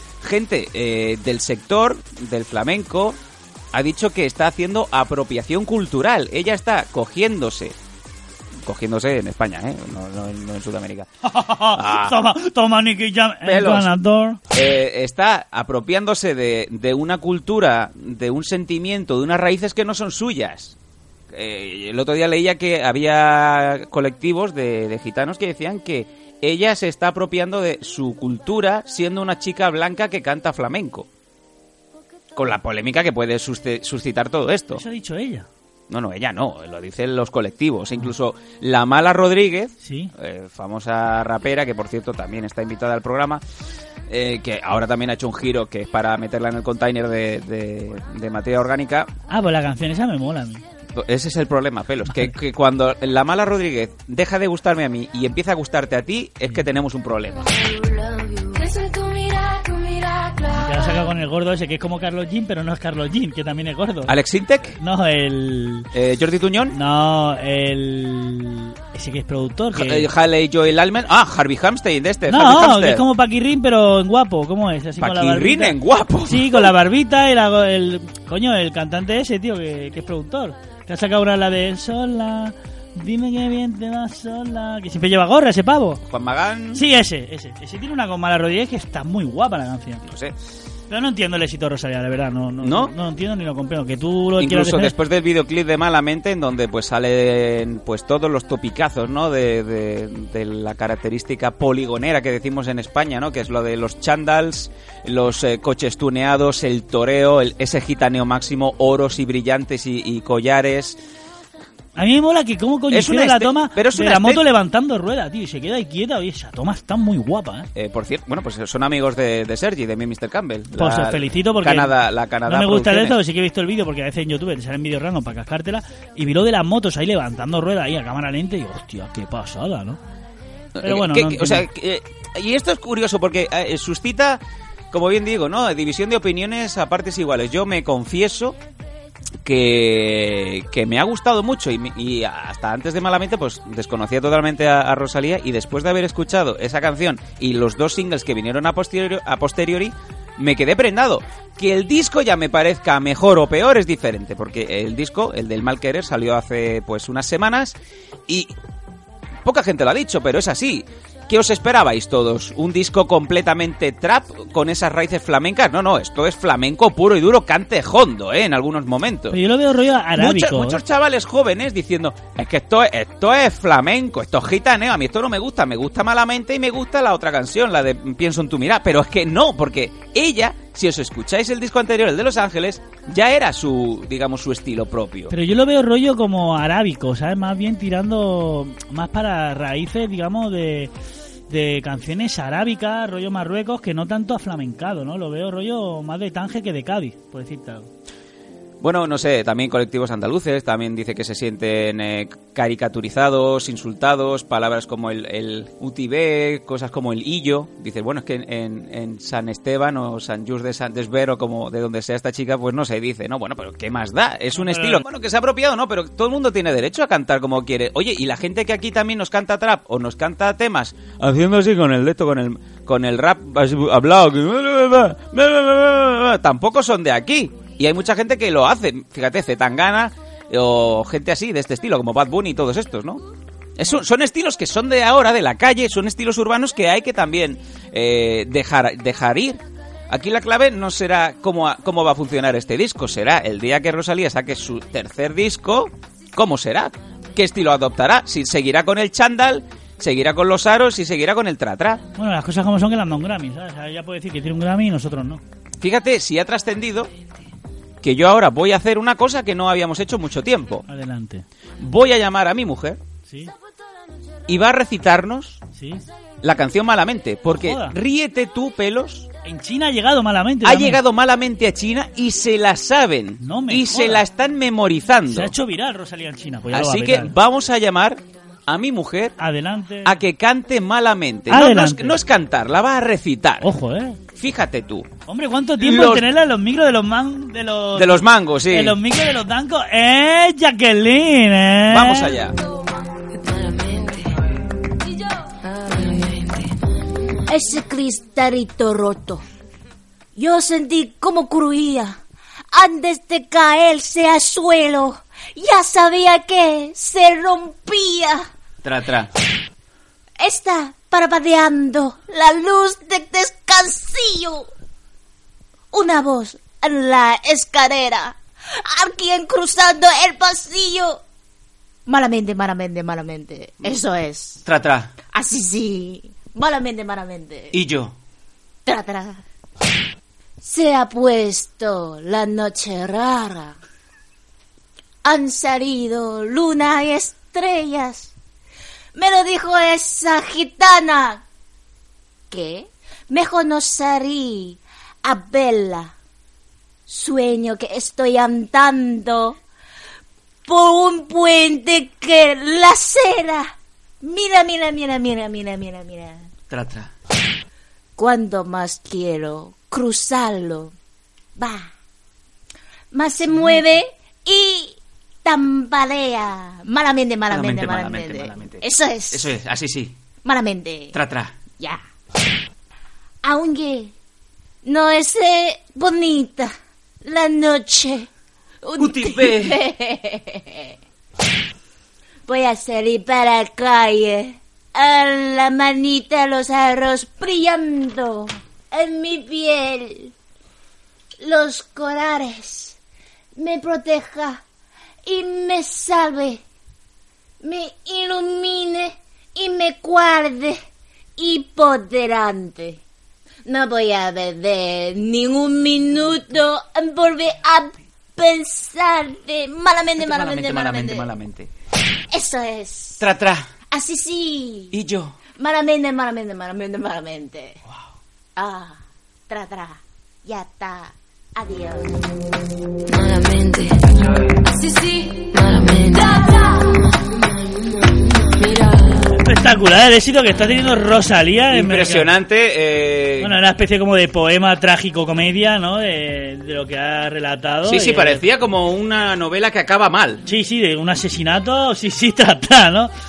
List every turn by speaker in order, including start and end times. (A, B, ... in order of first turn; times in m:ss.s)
0:00.2-0:03.2 A
0:03.7-0:07.8 A
0:08.6-0:11.1 A
0:11.2-0:14.4 B
0:11.6-0:12.2 A
0:13.4-0:13.9 A
0:14.5-0:20.8 A
0:21.3-0:31.1 A
0:32.4-0:34.8 A
0:34.7-0:35.5 B
0:35.9-0:43.4 A
0:39.8-0:40.1 B
0:44.1-0:49.1 A
0:49.3-0:50.6 B
0:51.0-0:57.5 A
0:57.6-1:01.1 C
1:00.6-1:04.2 B
1:04.1-1:04.8 A
1:04.8-1:05.9 B
1:05.9-1:06.8 A
1:06.7-1:10.1 B
1:09.7-1:13.1 A
1:12.3-1:26.0 B
1:15.0-1:16.7 A
1:26.0-1:26.8 A
1:26.7-1:30.0 B
1:30.0-1:30.4 A
1:30.9-1:34.9 B
1:32.6-1:32.9 A
1:34.4-1:51.0 A
1:52.0-1:57.7 B
1:52.9-1:54.4 A
1:57.8-2:03.2 A
2:00.8-2:10.0 B
2:10.8-2:18.6 A
2:10.8-2:11.7 B
2:19.4-2:38.5 A
2:39.4-2:49.4 A
2:49.3-2:50.8 B
2:50.2-3:05.3 A
3:05.3-3:10.9 B
3:11.5-3:17.9 B
3:18.8-3:53.2 A
3:34.5-3:35.0 B
3:53.8-4:12.0 A
4:12.2-4:15.4 B
4:15.8-4:17.1 A
4:18.0-4:20.8 A
4:20.9-4:21.4 B
4:21.8-4:23.0 A
4:23.3-4:23.5 B
4:24.5-4:25.6 A
4:25.8-4:26.0 B
4:26.4-4:29.3 A
4:27.6-4:28.0 B
4:29.4-4:31.0 B
4:30.6-4:35.6 A
4:33.4-4:34.3 B
4:35.3-4:37.3 B
4:36.7-4:39.4 A
4:39.4-4:40.2 B
4:40.0-4:43.7 A
4:41.5-4:42.2 B
4:43.6-4:44.2 B
4:44.4-4:45.1 A
4:45.3-4:52.4 B
4:45.8-4:46.3 A
4:47.9-4:49.0 A
4:51.9-4:52.6 A
4:53.3-4:54.4 C
4:55.6-4:56.8 C
4:57.5-4:59.4 D
5:00.4-5:02.2 D
5:02.7-5:08.5 D
5:08.8-5:09.3 A
5:10.4-5:14.7 D
5:15.9-5:21.2 D
5:22.1-5:24.6 D
5:24.6-5:25.1 A
5:25.3-5:27.8 D
5:27.7-5:28.2 A
5:28.9-5:29.4 D
5:30.6-5:33.8 D
5:35.2-5:38.3 D
5:39.2-5:41.4 D
5:42.5-5:46.1 D
5:47.1-5:49.6 D
5:50.7-5:56.5 D
5:56.7-5:57.1 A
5:58.2-6:00.9 D
6:01.6-6:01.9 D
6:03.1-6:09.5 D
6:03.6-6:03.8 A
6:07.5-6:10.2 A
6:10.4-6:11.2 D
6:11.1-6:11.6 A
6:11.7-6:12.0 D
6:13.4-6:14.1 D
6:14.8-6:16.7 D
6:17.2-6:18.3 D
6:18.8-6:20.9 D
6:19.0-6:19.8 A
6:22.5-6:30.3 D
6:31.4-6:33.0 D
6:33.6-6:34.6 D
6:35.3-6:36.6 D
6:37.6-6:40.8 D
6:41.4-6:43.0 D
6:43.7-6:51.3 D
6:50.2-6:51.7 A
6:52.3-6:53.2 D
6:53.2-6:53.7 A
6:53.9-6:54.9 D
6:54.9-6:55.4 A
6:55.6-6:57.8 D
6:58.6-7:02.1 D
7:03.1-7:04.0 C
7:04.7-7:09.3 C
7:09.3-7:12.3 B
7:11.7-7:13.6 A
7:13.4-7:18.4 B
7:17.8-7:20.4 A
7:20.5-7:23.1 B